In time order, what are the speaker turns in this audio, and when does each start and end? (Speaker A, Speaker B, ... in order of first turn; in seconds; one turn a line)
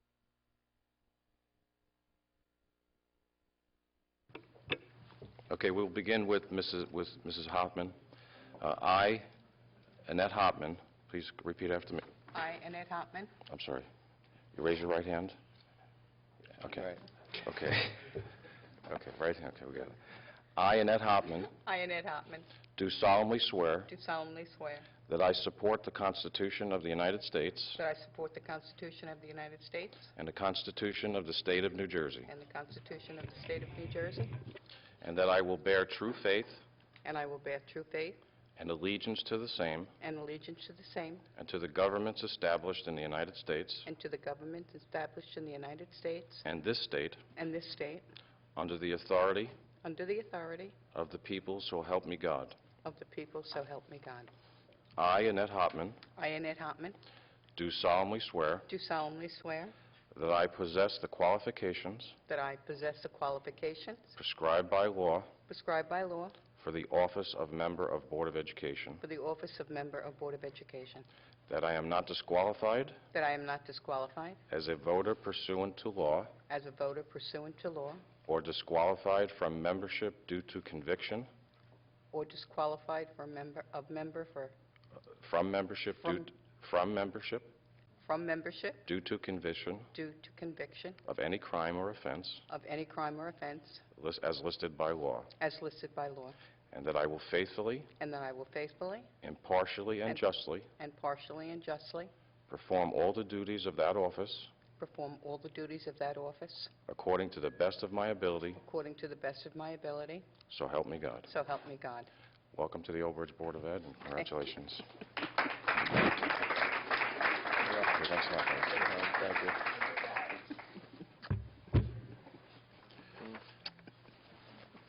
Speaker A: 5.5-8.0
Speaker A: 8.6-9.3
Speaker A: 10.1-12.0
Speaker B: 12.3-13.4
Speaker A: 13.5-13.9
Speaker A: 14.5-15.4
Speaker A: 16.6-18.3
Speaker A: 18.9-20.0
Speaker A: 20.6-21.5
Speaker B: 21.6-22.6
Speaker A: 22.8-23.9
Speaker B: 23.9-24.9
Speaker A: 25.0-27.8
Speaker B: 27.8-30.1
Speaker A: 30.2-32.3
Speaker B: 32.3-34.4
Speaker A: 35.0-36.6
Speaker B: 37.0-38.2
Speaker A: 38.6-39.9
Speaker B: 40.0-41.3
Speaker A: 41.4-43.9
Speaker B: 43.9-46.5
Speaker A: 46.5-47.3
Speaker B: 47.4-48.0
Speaker A: 48.6-49.6
Speaker B: 49.8-50.8
Speaker A: 50.9-52.6
Speaker B: 52.8-54.3
Speaker A: 55.0-56.0
Speaker B: 56.2-57.0
Speaker A: 57.6-58.7
Speaker B: 58.7-59.7
Speaker A: 60.1-62.2
Speaker B: 62.3-64.2
Speaker A: 64.2-65.3
Speaker B: 65.5-66.5
Speaker A: 66.5-69.0
Speaker B: 69.0-71.1
Speaker A: 71.5-73.0
Speaker B: 73.1-74.4
Speaker A: 74.5-76.4
Speaker B: 76.5-78.1
Speaker A: 78.2-81.3
Speaker B: 82.1-84.5
Speaker A: 85.2-87.5
Speaker B: 88.0-88.9
Speaker A: 88.9-89.9
Speaker B: 89.9-91.0
Speaker A: 91.0-92.5
Speaker B: 92.5-93.8
Speaker A: 93.9-95.3
Speaker B: 95.4-96.4
Speaker A: 96.7-97.9
Speaker B: 98.0-99.1
Speaker A: 99.2-100.7
Speaker B: 100.8-102.1
Speaker A: 102.5-104.5
Speaker B: 104.8-106.7
Speaker A: 106.9-108.6
Speaker B: 108.6-110.4
Speaker A: 110.4-111.3
Speaker B: 111.3-112.1
Speaker A: 112.5-114.8
Speaker A: 117.8-118.9